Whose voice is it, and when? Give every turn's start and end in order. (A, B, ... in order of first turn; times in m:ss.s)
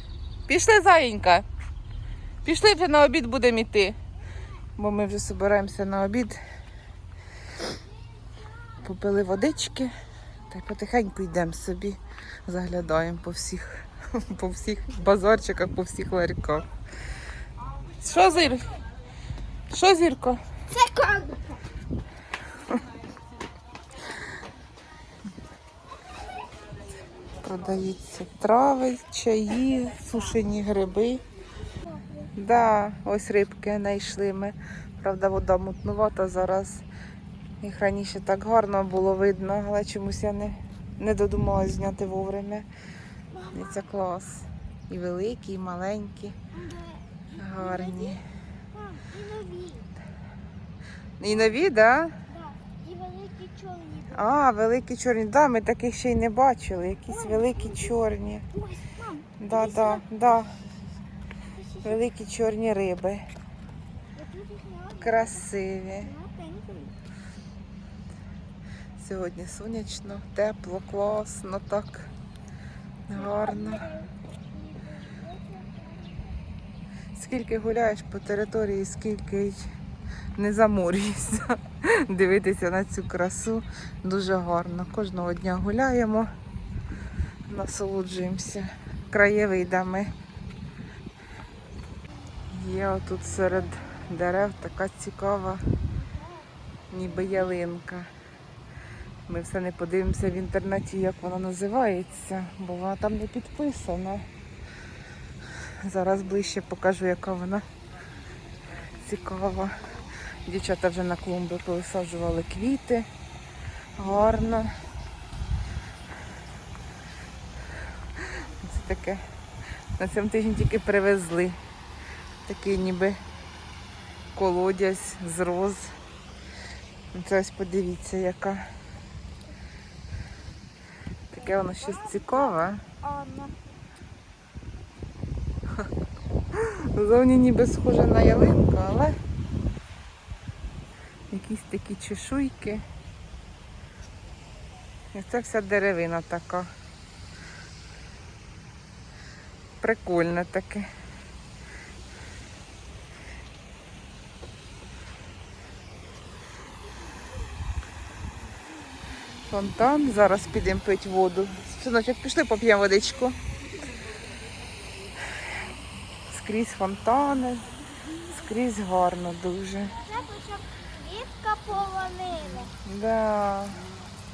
0:00.5-0:01.5 A
0:02.4-0:04.0 A
0:04.8-0:06.4 A
0:08.8-0:09.9 A
0:10.5-0:16.7 A
0:18.0-0:18.8 A
0:19.7-0:20.4 A
0:20.7-0:21.6 B
0:27.4-0:31.2 A
0:31.9-0:32.3 B
0:32.4-0:36.8 A
0:37.6-0:42.7 A
0:43.3-0:43.9 B
0:43.5-0:46.4 A
0:46.5-0:48.2 B
0:47.4-0:48.2 A
0:48.7-0:49.9 B
0:51.2-0:52.2 A
0:52.3-0:54.3 B
0:54.1-0:58.4 A
0:57.1-0:57.9 B
0:58.5-1:00.2 B
0:59.4-1:00.5 A
1:01.5-1:02.0 B
1:01.8-1:03.2 A
1:04.2-1:05.5 B
1:05.0-1:06.1 A
1:06.0-1:07.0 B
1:09.0-1:12.1 A
1:13.1-1:13.9 A
1:13.1-1:16.3 B
1:17.2-1:19.7 A
1:20.4-1:26.3 A
1:27.5-1:30.1 A
1:32.5-1:35.6 A
1:36.0-1:36.4 B
1:36.9-1:38.1 A
1:39.3-1:44.3 A
1:45.8-1:47.6 A
1:49.0-1:49.7 A
1:50.5-1:53.1 A
1:54.0-1:54.7 A
1:58.4-1:59.2 A
2:00.0-2:01.6 A
2:02.5-2:03.2 A
2:04.4-2:05.9 A
2:07.1-2:08.6 A
2:11.3-2:12.8 A
2:11.4-2:13.6 B
2:16.6-2:19.2 A
2:21.3-2:22.8 A
2:25.1-2:26.7 A
2:29.8-2:30.9 A
2:39.5-2:43.4 A
2:46.3-2:47.7 A
2:48.3-2:50.0 A
2:49.9-2:52.7 B
2:52.8-2:53.8 A